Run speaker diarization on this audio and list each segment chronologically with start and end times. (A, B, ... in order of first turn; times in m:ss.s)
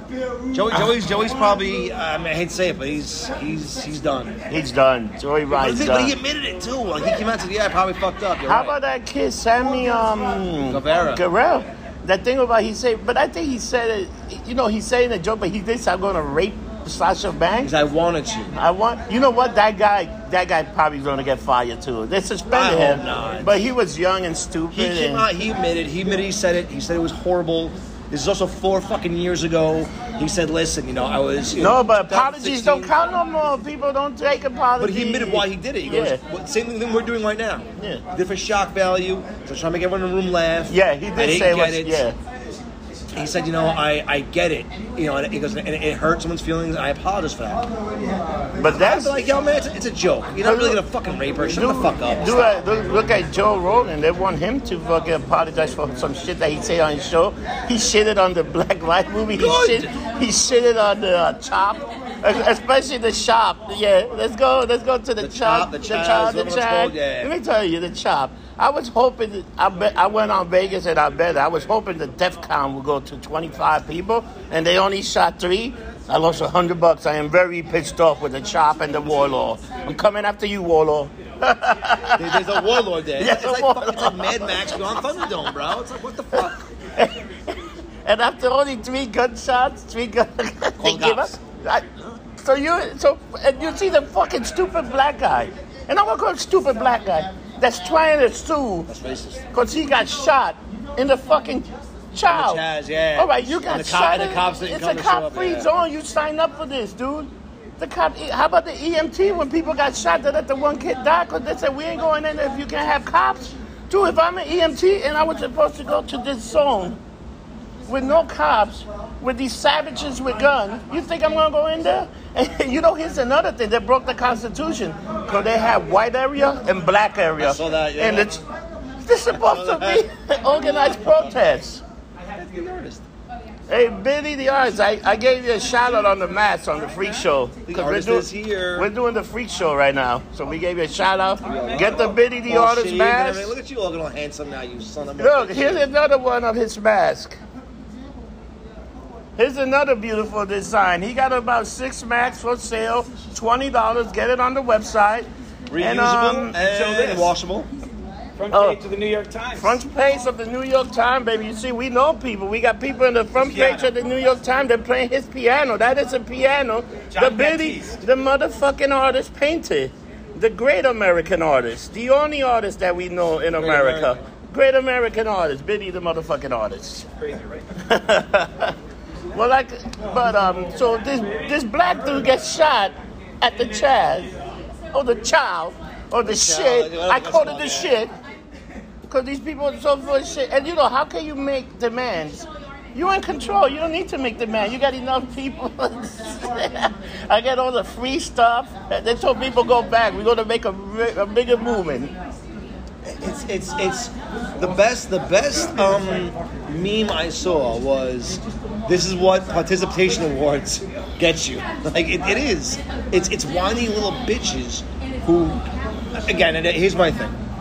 0:00.5-0:04.4 A
0:04.5-0:06.2 B
0:05.5-0:08.8 A
0:08.4-0:17.7 B
0:10.7-0:11.2 A
0:17.6-0:18.5 A
0:18.6-0:25.3 B
0:22.5-0:23.6 A
0:24.7-0:32.9 A
0:31.6-0:36.2 B
0:34.8-0:42.0 A
0:37.8-0:38.0 B
0:40.7-0:42.2 B
0:43.1-0:47.7 A
0:48.6-0:49.3 B
0:48.6-0:52.6 A
0:50.4-0:50.8 B
0:51.5-1:25.0 B
0:59.4-0:59.9 A
1:05.2-1:07.3 A
1:22.2-1:26.6 A
1:27.0-1:38.9 B
1:30.8-1:31.4 A
1:38.9-1:39.4 A
1:39.5-1:42.6 B
1:42.3-1:45.7 A
1:43.2-1:57.0 B
1:57.9-2:08.4 B
2:07.4-2:08.4 A
2:09.1-2:11.8 B
2:09.3-2:11.3 A
2:12.4-2:13.0 A
2:13.7-2:23.5 B
2:17.7-2:18.9 A
2:21.4-2:25.9 A
2:25.2-2:27.4 B
2:29.4-2:36.6 B
2:35.7-2:37.7 A
2:36.6-2:37.3 C
2:38.4-2:39.8 C
2:38.5-2:38.8 B
2:39.6-2:57.1 B
2:43.5-2:43.8 C
2:47.2-2:47.9 C
2:53.6-2:54.2 A
2:57.8-2:58.8 B
2:59.3-3:04.3 B
3:04.9-3:08.1 B
3:06.2-3:08.0 A
3:09.1-3:22.1 B
3:23.0-3:35.6 A
3:36.1-3:37.4 A